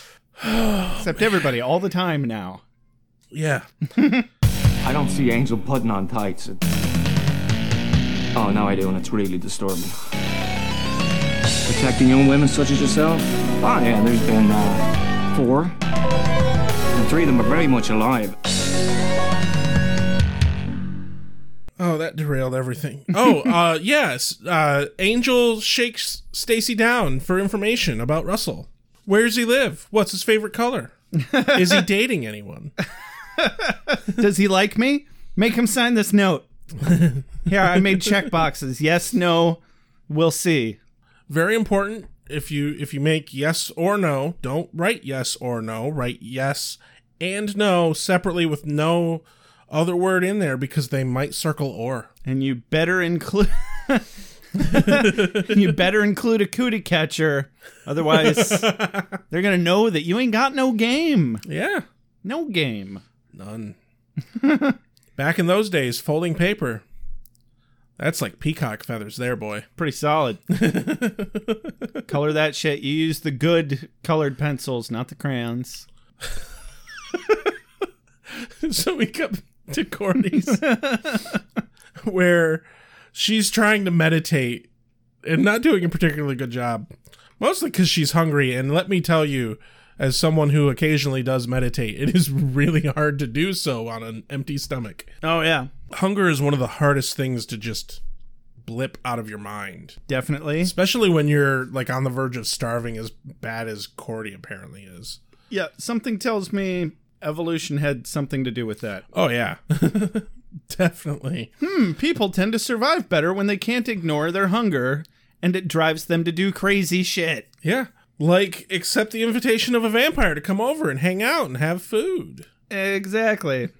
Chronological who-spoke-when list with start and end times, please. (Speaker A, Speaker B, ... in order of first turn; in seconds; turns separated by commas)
Speaker A: 0.4-1.5, Speaker B: 1.0-2.6, Speaker A: 3.3-3.7, Speaker B: 4.0-4.3, Speaker C: 4.8-6.7, Speaker C: 8.3-9.9, Speaker C: 11.7-15.8, Speaker C: 16.9-18.4, Speaker A: 21.8-30.9, Speaker B: 31.2-31.9, Speaker A: 31.5-32.7, Speaker B: 33.4-36.5, Speaker A: 36.8-38.3, Speaker B: 37.5-40.8, Speaker A: 41.3-52.1, Speaker B: 52.2-58.8, Speaker A: 54.6-55.7, Speaker A: 58.1-59.2, Speaker B: 59.3-61.4, Speaker A: 61.5-61.9, Speaker B: 62.2-63.0, Speaker A: 63.3-63.8, Speaker B: 64.3-64.8, Speaker A: 65.2-66.8, Speaker A: 68.0-69.7, Speaker B: 69.8-70.4, Speaker A: 70.5-72.0, Speaker B: 72.1-75.9, Speaker A: 77.1-77.4, Speaker A: 78.3-80.7, Speaker B: 80.5-81.4, Speaker A: 82.0-84.7, Speaker A: 85.2-95.1, Speaker B: 95.2-95.7, Speaker A: 95.9-98.0, Speaker A: 98.6-100.0, Speaker B: 100.1-100.7, Speaker A: 100.6-105.2, Speaker B: 105.5-109.0, Speaker A: 109.1-111.5, Speaker B: 111.6-117.5, Speaker A: 117.6-122.5, Speaker B: 122.7-123.7